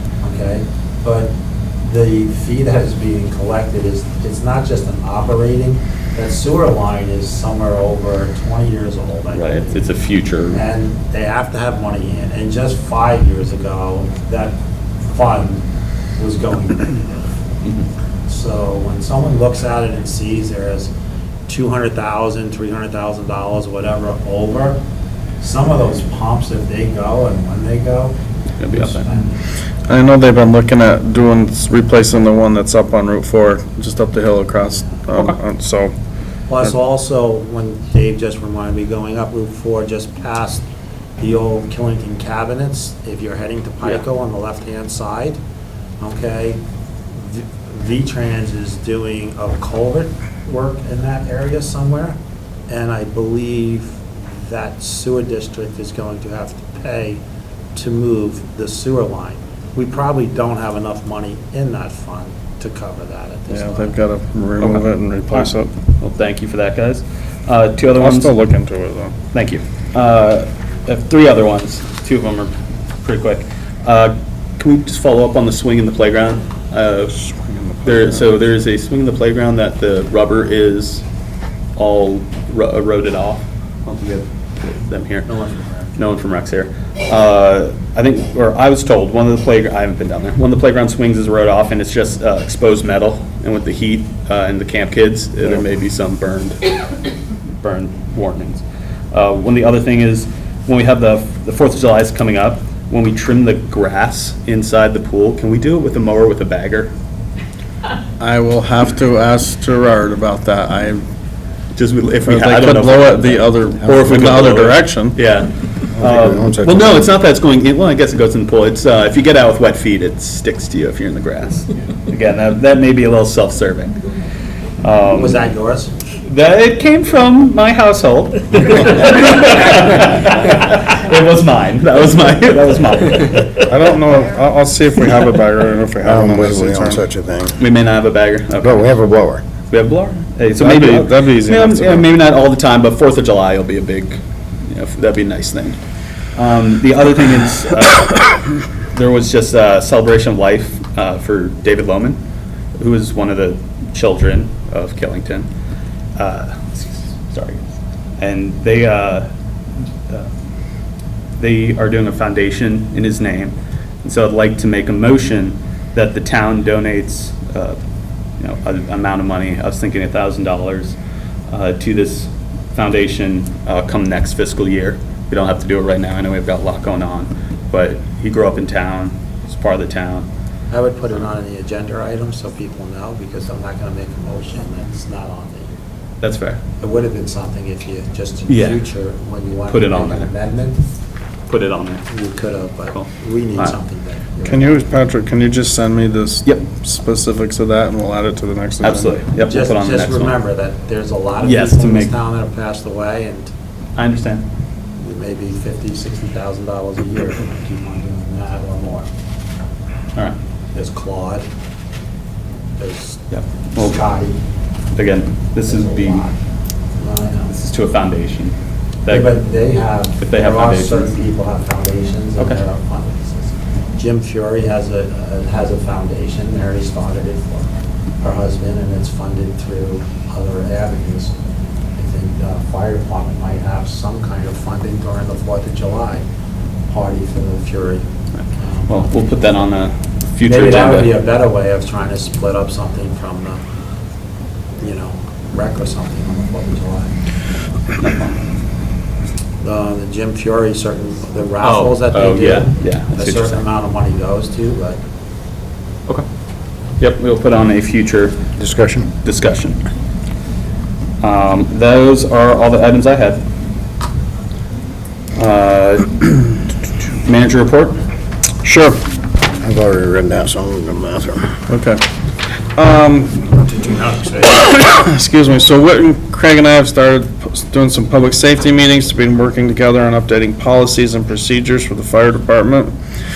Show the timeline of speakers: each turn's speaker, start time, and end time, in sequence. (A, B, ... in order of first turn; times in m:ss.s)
0:00.2-0:09.8 A
0:09.3-0:10.6 B
0:10.5-0:15.6 A
0:16.2-0:17.1 A
0:18.3-0:20.9 A
0:21.5-0:24.8 A
0:25.4-0:28.1 A
0:28.6-0:29.1 B
0:28.7-0:29.4 A
0:29.9-0:35.9 C
0:35.1-0:35.4 B
0:36.5-0:40.6 A
0:41.2-0:45.4 A
0:46.0-0:46.6 A
0:47.1-0:52.2 A
0:52.7-0:57.2 A
0:57.7-1:04.0 A
1:03.5-1:05.7 C
1:04.6-1:08.3 B
1:08.0-1:09.1 C
1:09.3-1:17.2 B
1:17.2-1:18.2 C
1:17.8-1:21.0 B
1:21.8-1:25.3 B
1:25.2-1:26.0 A
1:26.0-1:36.6 B
1:37.6-1:46.9 B
1:48.2-1:51.0 C
1:51.8-2:04.0 B
1:52.2-1:55.2 C
1:56.0-1:57.0 D
2:04.8-2:05.4 B
2:05.1-2:05.9 A
2:06.2-2:13.7 B
2:13.6-2:17.0 C
2:16.0-2:17.6 D
2:17.6-2:18.9 B
2:18.6-2:19.4 D
2:19.7-2:25.8 B
2:20.6-2:22.0 C
2:26.4-2:32.2 B
2:32.8-2:35.5 B
2:36.2-2:37.6 B
2:38.2-2:39.3 B
2:41.4-2:47.8 B
2:48.4-2:51.0 B
2:51.5-3:00.3 B
3:00.7-3:05.8 A
3:06.2-3:06.6 B
3:06.8-3:10.8 A
3:08.5-3:08.8 B
3:09.7-3:10.3 B
3:11.5-3:12.0 B
3:12.1-3:14.7 A
3:12.9-3:13.8 B
3:14.4-3:19.1 C
3:18.8-3:20.4 B
3:19.5-3:23.5 A
3:21.4-3:22.1 B
3:24.0-3:24.4 B
3:25.0-3:29.1 A
3:30.7-3:31.4 A
3:32.8-3:33.2 A
3:33.3-3:34.0 B
3:33.8-3:34.4 A
3:34.9-3:36.2 B
3:35.6-3:36.4 A
3:37.0-3:37.5 A
3:37.5-3:39.4 B
3:39.1-3:47.7 A
3:40.2-3:41.2 B
3:48.2-3:51.3 A
3:52.0-3:56.2 A
3:56.9-3:59.1 A
3:58.9-4:01.1 B
4:00.4-4:03.6 A
4:04.8-4:07.1 A
4:08.0-4:08.4 B
4:09.6-4:15.0 A
4:11.6-4:13.6 B
4:17.0-4:18.4 B
4:18.6-4:19.1 D
4:19.2-4:19.8 B
4:21.2-4:23.4 B
4:25.4-4:26.7 B
4:27.2-4:28.0 B
4:28.6-4:29.0 C
4:29.6-4:31.5 D
4:31.7-4:32.0 C
4:32.8-4:42.9 C